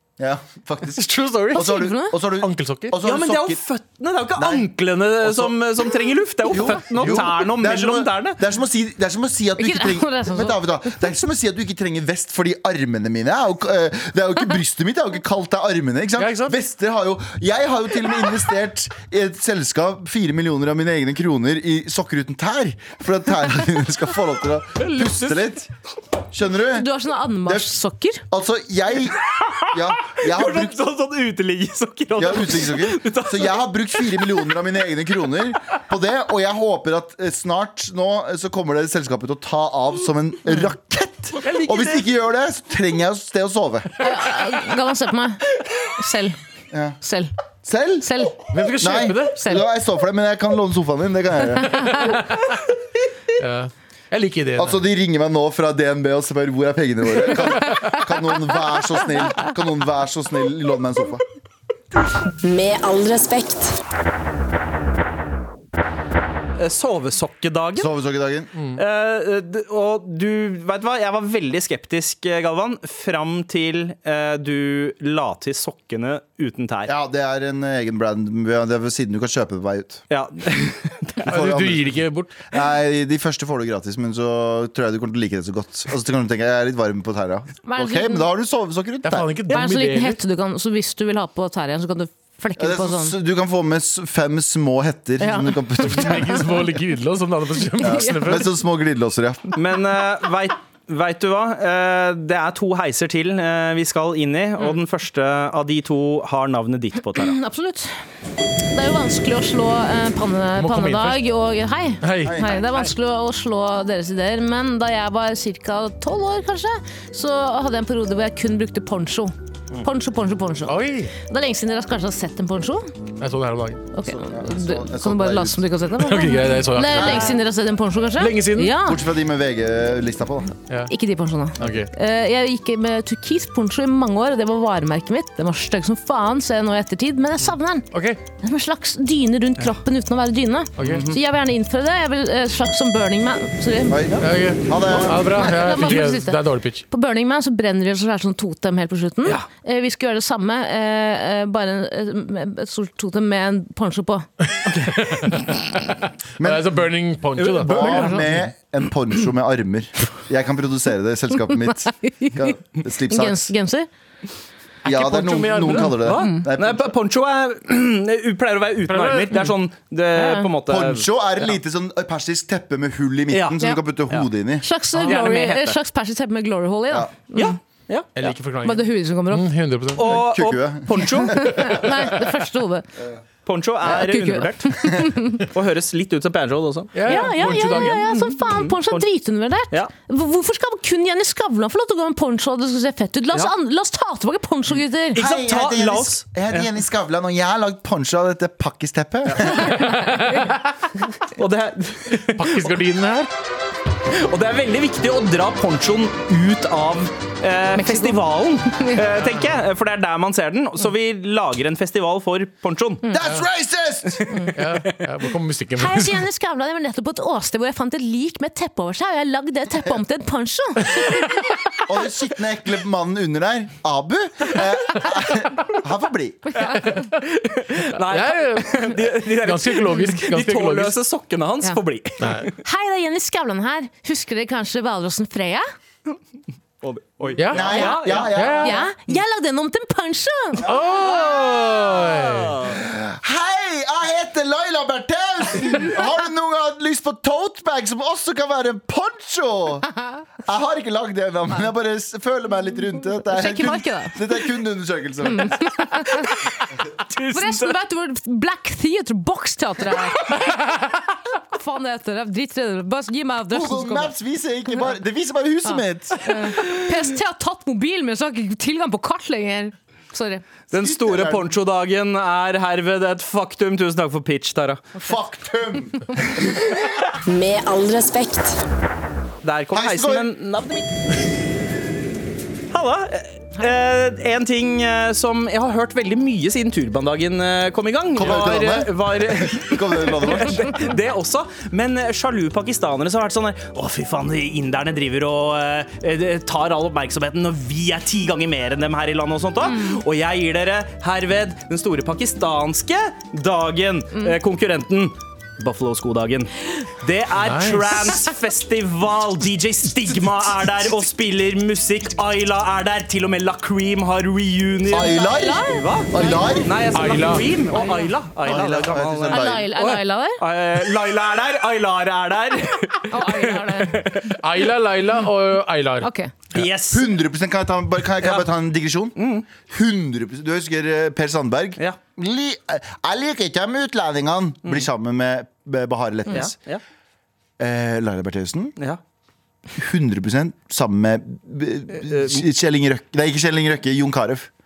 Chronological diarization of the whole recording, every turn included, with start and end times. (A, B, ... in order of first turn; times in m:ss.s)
0:00.2-0:03.6 A
0:01.0-0:01.7 B
0:01.6-0:02.2 C
0:02.3-0:03.0 B
0:03.0-0:08.4 D
0:04.4-0:04.7 A
0:05.2-0:05.6 A
0:06.5-0:25.7 A
0:09.6-0:10.6 C
0:16.2-0:16.6 B
0:24.8-0:25.4 B
0:26.3-0:26.9 A
0:26.7-0:28.2 C
0:27.4-0:27.8 A
0:28.3-0:29.2 A
0:29.4-0:34.2 D
0:29.7-0:30.8 A
0:32.2-0:43.9 A
0:41.4-0:41.8 D
0:44.0-0:45.4 C
0:46.0-0:46.4 C
0:46.7-0:47.0 A
0:47.0-0:47.3 C
0:47.6-0:51.9 A
0:48.0-0:48.5 C
0:48.5-0:49.4 B
0:51.7-0:52.1 C
0:51.8-0:52.5 B
0:53.4-0:54.8 B
0:54.6-1:01.2 A
0:57.5-0:58.1 B
1:02.4-1:03.8 E
1:06.6-1:07.9 D
1:07.8-1:08.5 A
1:08.8-1:16.9 D
1:16.9-1:20.0 A
1:20.1-1:21.3 D
1:21.2-1:22.3 B
1:21.3-1:29.4 A
1:27.6-1:28.3 C
1:29.0-1:30.2 B
1:29.5-1:33.2 C
1:32.6-1:36.5 A
1:35.2-1:36.2 C
1:35.8-1:38.5 B
1:37.8-1:39.4 A
1:37.9-1:38.2 C
1:39.6-1:47.4 D
1:47.2-1:47.9 C
1:48.7-2:02.9 C
1:50.6-1:51.2 B
1:52.0-1:52.4 B
1:52.2-1:52.6 A
2:00.7-2:01.1 B
2:03.2-2:03.8 B
2:03.9-2:09.0 C
2:04.0-2:05.6 A
2:06.0-2:07.4 B
2:07.0-2:07.3 A
2:08.2-2:08.8 B
2:08.8-2:10.5 A
2:10.9-2:17.9 C
2:11.6-2:11.9 B
2:17.9-2:18.2 B
2:18.4-2:24.0 C
2:20.8-2:21.1 B
2:20.8-2:21.2 D
2:23.9-2:25.7 A
2:24.2-2:26.8 B
2:24.9-2:34.3 C
2:34.7-2:38.2 B
2:36.4-2:36.9 A
2:37.4-2:38.2 D
2:37.6-2:43.5 A
2:41.5-2:42.5 C
2:43.1-2:43.9 C
2:44.8-2:46.9 A
2:44.8-2:46.0 B
2:45.8-2:51.1 D
2:46.2-2:46.4 C
2:48.9-2:49.5 B
2:50.2-2:50.5 C
2:50.7-2:54.6 A
2:53.3-2:54.3 D
2:54.6-2:57.6 C
2:55.0-2:55.8 D
2:57.4-2:58.3 D
2:58.2-3:00.2 B
2:58.6-2:59.5 C
3:00.0-3:01.4 D
3:00.2-3:01.8 A
3:01.2-3:02.9 C
3:03.5-3:09.0 D
3:03.9-3:05.4 C
3:06.9-3:08.1 B
3:07.1-3:15.2 C
3:15.1-3:16.7 D
3:15.2-3:19.8 A
3:19.6-3:20.6 C
3:21.4-3:22.8 D
3:22.3-3:23.3 B
3:24.1-3:33.0 D
3:27.8-3:29.0 C
3:33.1-3:34.3 A
3:34.6-3:36.2 B
3:35.8-3:41.3 C
3:41.9-3:46.4 A
3:46.5-3:47.0 C
3:47.0-3:52.6 D
3:47.9-3:51.0 B
3:52.2-3:52.5 B
3:52.6-3:55.6 C
3:56.8-3:58.6 D
3:57.4-3:58.8 B
3:57.5-3:58.8 A
3:57.7-4:00.7 C
4:00.6-4:02.6 B
4:01.2-4:02.8 D
4:02.8-4:09.9 A
4:10.5-4:15.7 A
4:13.3-4:14.2 C
4:15.2-4:16.3 C
4:17.1-4:17.8 D
4:17.3-4:20.6 C
4:21.3-4:24.1 C
4:23.5-4:26.3 A
4:25.7-4:30.4 C
4:30.7-4:34.9 D
4:30.7-4:31.5 A
4:35.0-4:36.6 A
4:37.3-4:38.6 E
4:39.4-4:41.2 D
4:39.7-4:40.3 A
4:42.7-5:24.4 D
4:48.2-4:50.7 A
4:59.6-5:00.0 C
5:04.1-5:04.4 C
5:07.4-5:08.3 B
5:14.9-5:16.7 A
5:15.1-5:16.6 C
5:16.9-5:17.5 B
5:17.7-5:18.6 C
5:18.4-5:19.7 A
5:19.3-5:20.4 C
5:23.1-5:24.1 C
5:24.4-5:26.1 B
5:26.0-5:26.3 C
5:26.5-5:27.1 D
5:26.9-5:36.5 A
5:29.2-5:29.5 D
5:36.3-5:36.8 D
5:37.6-5:38.8 A
5:39.8-5:44.5 A
5:41.9-5:42.4 D